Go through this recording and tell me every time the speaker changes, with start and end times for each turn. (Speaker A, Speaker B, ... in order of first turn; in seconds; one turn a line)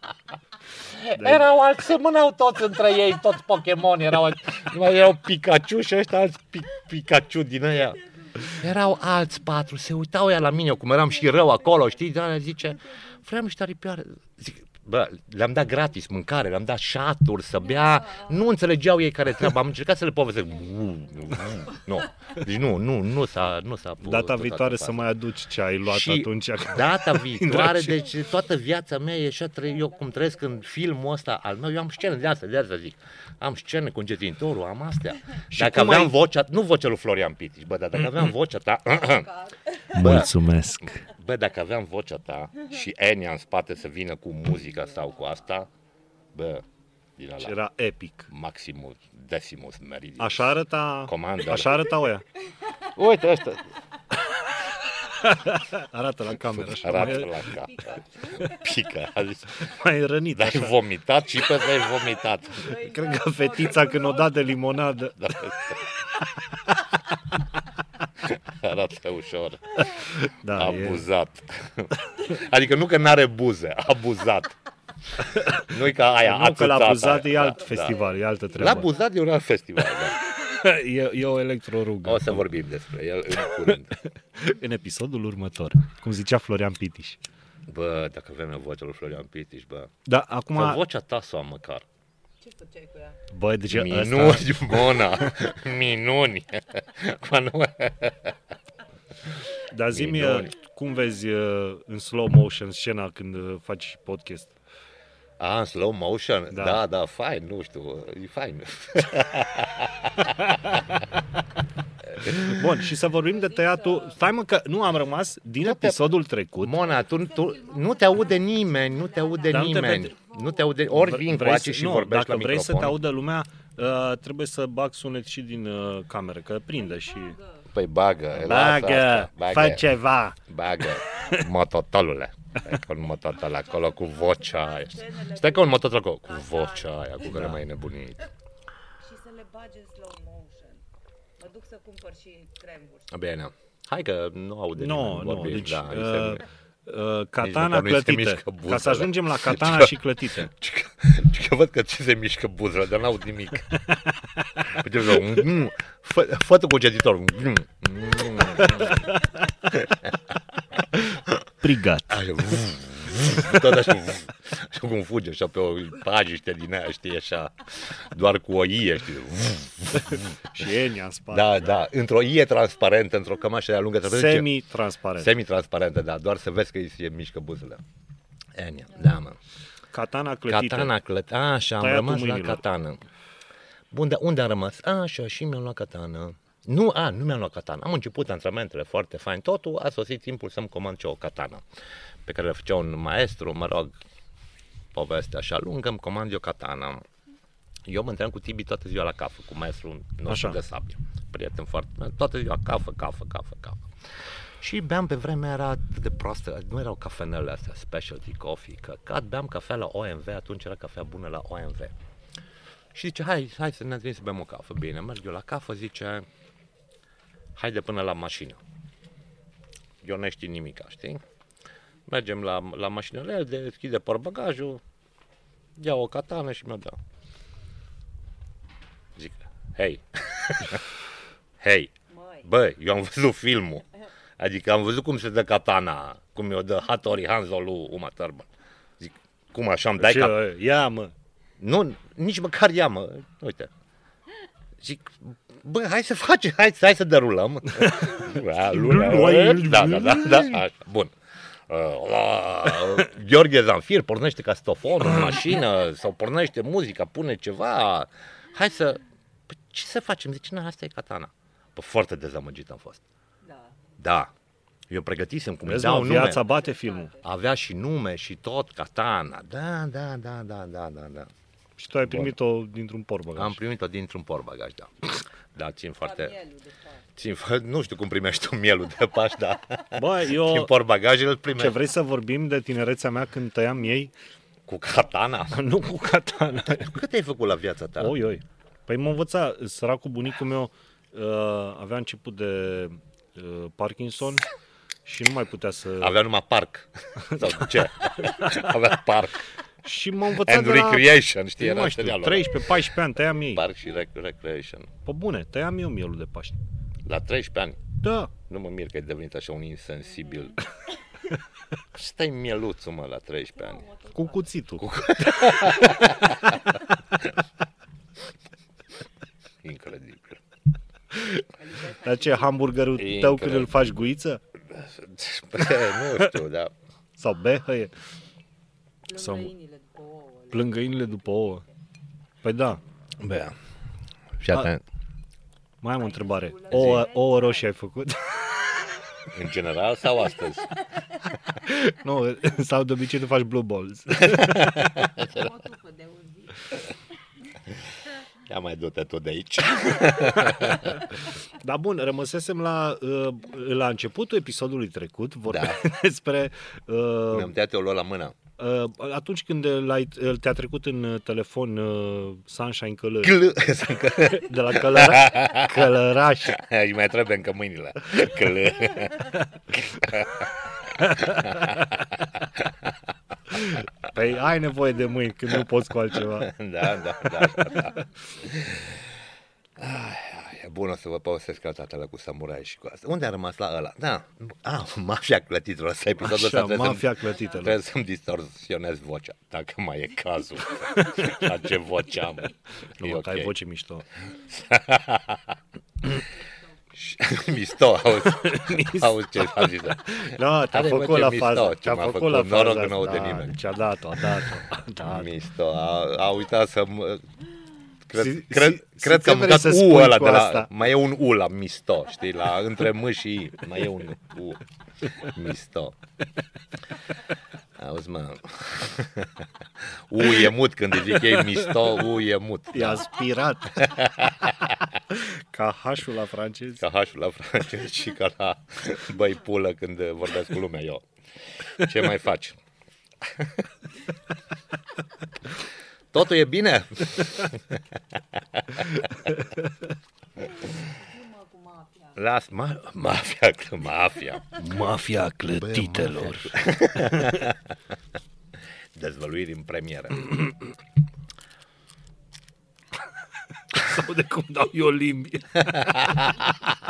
Speaker A: 0.9-25.0
Speaker B: 1.2-1.4
Speaker B: 24.0-28.0
Speaker A: 25.8-39.3
Speaker C: 29.9-30.6
Speaker B: 35.5-36.1
Speaker C: 39.2-39.8
Speaker B: 39.9-41.0
Speaker A: 40.0-45.7
Speaker A: 46.3-46.6
Speaker A: 47.2-47.6
Speaker B: 47.4-48.3
Speaker A: 48.3-51.9
Speaker B: 50.2-52.2
Speaker A: 52.9-53.7
Speaker B: 55.1-57.5
Speaker A: 56.4-59.7
Speaker C: 57.4-58.6
Speaker B: 59.6-60.8
Speaker A: 60.4-62.7
Speaker C: 62.5-64.6
Speaker B: 62.7-65.2
Speaker A: 65.2-65.8
Speaker A: 68.2-69.9
Speaker B: 69.8-71.0
Speaker A: 70.5-74.5
Speaker B: 75.2-75.7
Speaker A: 75.5-78.0
Speaker B: 76.2-78.9
Speaker C: 77.6-79.1
Speaker A: 78.6-80.2
Speaker B: 80.5-82.5
Speaker A: 82.0-83.9
Speaker B: 84.0-87.2
Speaker A: 87.7-89.9
Speaker B: 90.1-90.8
Speaker A: 90.5-91.8
Speaker C: 92.4-93.2
Speaker B: 93.3-95.1
Speaker A: 93.7-98.4
Speaker B: 99.7-104.6
Speaker A: 99.9-100.5
Speaker A: 105.4-110.8
Speaker B: 106.5-106.8
Speaker A: 112.2-112.6
Speaker B: 112.2-116.8
Speaker C: 113.3-114.2
Speaker A: 115.6-123.0
Speaker C: 116.7-120.8
Speaker B: 119.5-120.1
Speaker B: 120.9-127.4
Speaker C: 127.0-127.7
Speaker A: 127.7-129.9
Speaker B: 128.3-130.4
Speaker A: 130.5-138.3
Speaker C: 133.4-137.3
Speaker B: 137.3-137.6
Speaker C: 139.0-140.8
Speaker C: 141.4-143.2
Speaker A: 143.1-146.4
Speaker B: 144.8-150.5
Speaker A: 147.4-153.8
Speaker A: 154.7-160.2
Speaker A: 161.0-161.3
Speaker B: 161.6-162.2
Speaker A: 162.1-170.4
Speaker B: 170.0-171.7
Speaker A: 171.3-174.5
Speaker B: 174.0-175.3
Speaker A: 175.2-177.8
Speaker A: 178.6-179.4
Speaker B: 179.9-180.9
Speaker A: 180.5-183.0
Speaker B: 181.8-182.6
Speaker A: 183.9-191.7
Speaker A: 192.2-194.0
Speaker A: 194.9-197.0
Speaker A: 197.9-211.9
Speaker B: 200.3-200.6
Speaker A: 212.9-216.3
Speaker A: 217.6-218.6
Speaker A: 220.0-221.2
Speaker A: 222.1-224.8
Speaker A: 225.8-227.0
Speaker A: 229.2-230.8
Speaker A: 231.6-233.8
Speaker C: 232.1-232.5
Speaker A: 234.4-238.5
Speaker A: 239.0-240.4
Speaker B: 240.0-241.1
Speaker A: 241.6-243.7
Speaker A: 244.8-251.1
Speaker B: 247.8-250.6
Speaker A: 251.7-263.0
Speaker C: 263.4-263.8
Speaker A: 264.0-264.3
Speaker A: 264.9-266.4
Speaker B: 265.7-267.1
Speaker C: 266.2-267.2
Speaker A: 267.2-271.3
Speaker B: 271.8-273.6
Speaker A: 272.1-272.3
Speaker A: 273.4-276.4
Speaker C: 276.0-277.1
Speaker A: 277.2-281.8
Speaker B: 279.9-280.7
Speaker B: 281.6-284.1
Speaker A: 284.7-285.6
Speaker B: 285.5-287.0
Speaker A: 286.7-288.2
Speaker B: 288.0-294.5
Speaker B: 295.1-296.2
Speaker A: 296.0-299.5
Speaker B: 298.4-298.7
Speaker B: 299.9-303.7
Speaker A: 300.3-302.6
Speaker A: 303.4-304.9
Speaker B: 305.1-306.6
Speaker A: 307.1-307.8
Speaker B: 308.0-308.3
Speaker A: 308.5-310.6
Speaker A: 311.9-313.9
Speaker C: 313.6-314.5
Speaker B: 314.1-314.9
Speaker A: 314.8-317.3
Speaker A: 319.6-320.4
Speaker B: 321.1-324.4
Speaker C: 321.6-322.8
Speaker A: 322.9-324.0
Speaker A: 324.7-326.7
Speaker B: 327.2-327.9
Speaker C: 329.1-331.7
Speaker B: 329.2-329.5
Speaker B: 330.5-331.6
Speaker B: 332.4-332.8
Speaker A: 333.2-333.6
Speaker A: 334.4-334.8
Speaker B: 335.8-338.5
Speaker C: 336.0-337.7
Speaker A: 336.7-337.1
Speaker A: 339.3-340.8
Speaker B: 341.5-345.1
Speaker A: 344.2-345.5
Speaker C: 345.2-346.8
Speaker A: 348.5-351.1
Speaker B: 351.6-357.5
Speaker A: 355.5-355.8
Speaker A: 357.3-358.4
Speaker B: 358.6-363.4
Speaker A: 363.2-365.9
Speaker B: 364.3-366.6
Speaker A: 366.4-372.9
Speaker B: 371.1-371.7
Speaker B: 373.5-376.5
Speaker A: 376.3-379.1
Speaker A: 379.8-393.5
Speaker B: 386.2-387.8
Speaker B: 393.0-394.1
Speaker A: 394.5-395.6
Speaker A: 397.0-403.6
Speaker B: 398.2-405.3
Speaker A: 405.0-407.2
Speaker A: 408.1-416.0
Speaker B: 408.1-410.7
Speaker A: 417.8-423.1
Speaker B: 422.7-423.9
Speaker A: 423.8-424.8
Speaker B: 425.1-426.9
Speaker A: 426.8-431.0
Speaker A: 431.7-432.6
Speaker A: 433.2-433.6
Speaker A: 436.1-438.0
Speaker A: 438.5-439.1
Speaker C: 440.7-442.2
Speaker A: 442.2-444.5
Speaker B: 444.6-447.4
Speaker A: 445.6-447.7
Speaker A: 448.9-450.4
Speaker B: 453.7-456.3
Speaker A: 455.9-456.3